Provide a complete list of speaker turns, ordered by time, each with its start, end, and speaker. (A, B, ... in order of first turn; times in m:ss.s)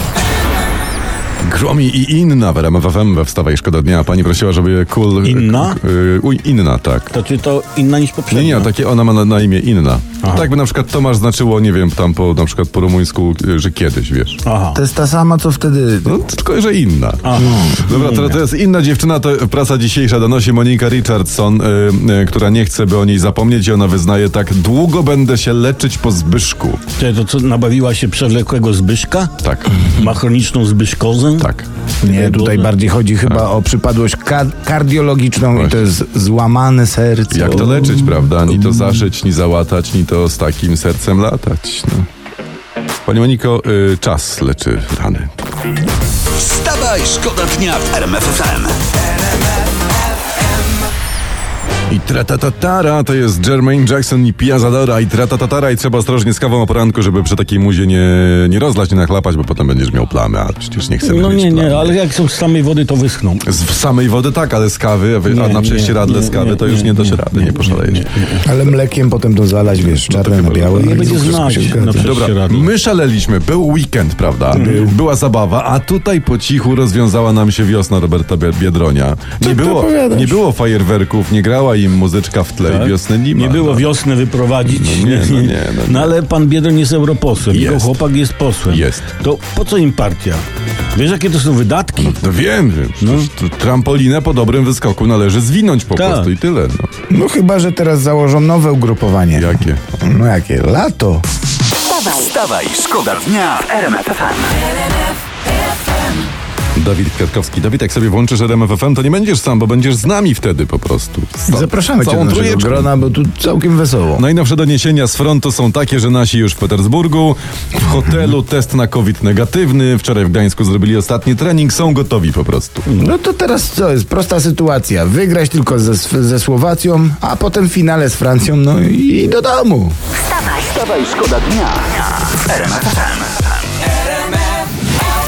0:01.4-0:07.1 A
0:05.2-0:05.8 B
0:07.1-0:08.7 B
0:08.3-0:14.4 A
0:10.2-0:10.5 B
0:14.4-0:14.8 B
0:14.7-0:16.2 C
0:16.1-0:26.8 A
0:17.2-0:18.4 B
0:17.4-0:17.8 C
0:27.0-0:31.5 B
0:29.4-0:30.0 A
0:31.4-0:31.7 A
0:32.0-0:38.0 C
0:32.0-0:32.7 B
0:35.5-0:35.8 A
0:37.3-0:42.0 A
0:43.1-0:45.3 A
0:46.3-0:48.8 D
0:51.9-1:02.0 A
1:01.0-1:03.4 B
1:03.4-1:08.1 A
1:05.3-1:08.5 B
1:08.4-1:12.1 C
1:09.8-1:23.9 A
1:10.7-1:12.7 B
1:14.5-1:14.9 B
1:14.5-1:15.0 C
1:19.4-1:20.4 C
1:22.6-1:32.3 B
1:24.6-1:26.1 A
1:27.5-1:27.9 A
1:28.7-1:29.0 A
1:32.0-1:36.9 A
1:33.0-1:33.3 B
1:36.0-1:36.3 B
1:37.1-1:41.2 C
1:39.4-1:39.8 A
1:41.8-1:44.6 D
1:46.8-1:52.9 A
1:51.5-1:54.2 C
1:54.2-2:02.9 A
2:02.9-2:09.9 C
2:10.3-2:13.5 D